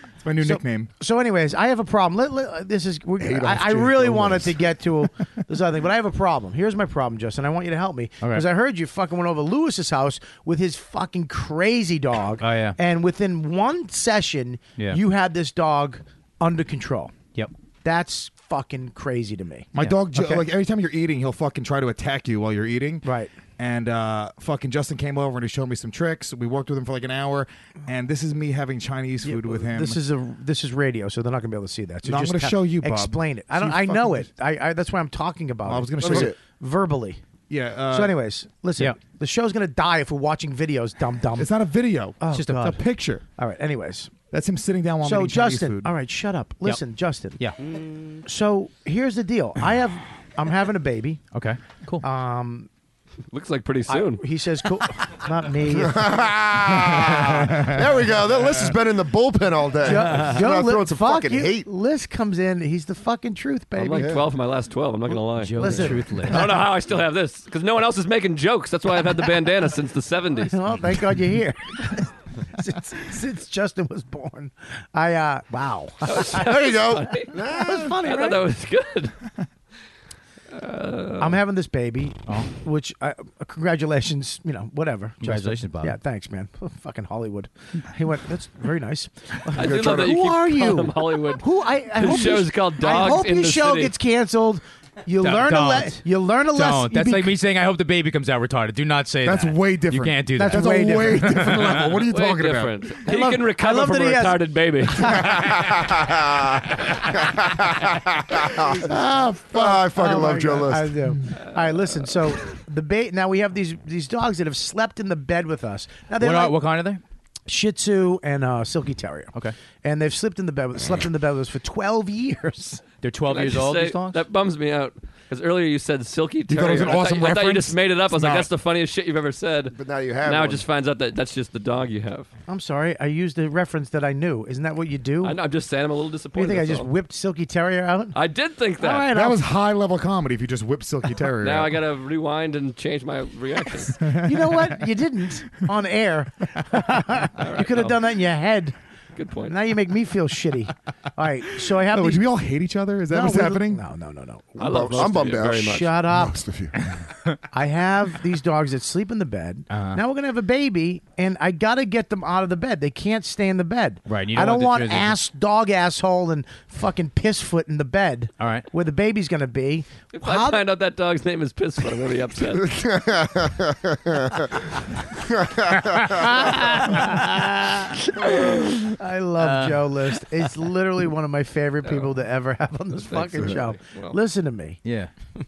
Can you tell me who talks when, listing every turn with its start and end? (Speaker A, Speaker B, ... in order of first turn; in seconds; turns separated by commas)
Speaker A: 0.2-0.9, Speaker B: 0.4-17.1, Speaker C: 3.2-4.6, Speaker D: 12.4-12.8, Speaker B: 17.8-20.4, Speaker A: 19.7-30.0, Speaker B: 23.0-23.3, Speaker B: 29.2-37.2, Speaker A: 32.0-34.3, Speaker A: 35.6-36.3, Speaker C: 36.0-36.4, Speaker A: 37.5-38.1, Speaker B: 37.9-41.5, Speaker A: 41.4-43.2, Speaker B: 42.2-42.8, Speaker D: 42.3-42.7, Speaker B: 43.4-44.1, Speaker A: 44.3-45.9, Speaker B: 45.0-47.4, Speaker B: 48.2-51.2, Speaker D: 51.3-52.0, Speaker B: 52.0-52.7, Speaker E: 53.3-54.2, Speaker B: 53.9-56.1, Speaker C: 55.6-61.7, Speaker B: 59.8-64.2, Speaker E: 63.8-70.6, Speaker D: 65.4-66.4, Speaker B: 65.5-66.7, Speaker B: 70.5-76.5, Speaker E: 76.1-79.1, Speaker C: 76.3-78.0, Speaker B: 77.3-78.5, Speaker E: 80.5-81.4, Speaker B: 81.2-97.3, Speaker D: 85.2-86.0, Speaker E: 89.5-93.9, Speaker C: 89.6-90.2, Speaker D: 95.2-101.9, Speaker A: 99.2-103.0, Speaker B: 100.4-101.5, Speaker E: 102.1-105.3, Speaker B: 103.0-105.3, Speaker C: 105.1-109.0, Speaker B: 108.8-116.6, Speaker C: 109.5-111.1, Speaker D: 116.2-117.0, Speaker B: 117.5-122.8, Speaker D: 123.0-124.2, Speaker E: 123.3-132.3, Speaker A: 126.5-128.5, Speaker C: 129.7-130.7, Speaker B: 132.5-135.4, Speaker E: 135.2-136.9, Speaker B: 136.3-138.1, Speaker E: 138.1-139.1, Speaker B: 138.8-139.4, Speaker A: 138.8-141.8, Speaker E: 141.4-144.0, Speaker A: 144.0-144.6, Speaker B: 144.2-148.7, Speaker E: 147.4-148.0, Speaker E: 149.2-149.6, Speaker B: 149.5-152.2, Speaker A: 151.8-153.8, Speaker B: 153.1-154.5, Speaker C: 154.6-156.7, Speaker E: 154.6-155.8, Speaker B: 155.2-156.4, Speaker B: 157.5-170.6, Speaker D: 159.7-160.0, Speaker D: 164.1-165.2, Speaker D: 168.4-168.7, Speaker E: 170.1-172.8, Speaker C: 172.5-176.8, Speaker D: 175.8-177.3, Speaker B: 178.2-184.8, Speaker D: 179.4-179.8, Speaker E: 181.8-182.1, Speaker E: 182.9-184.2, Speaker D: 184.8-185.1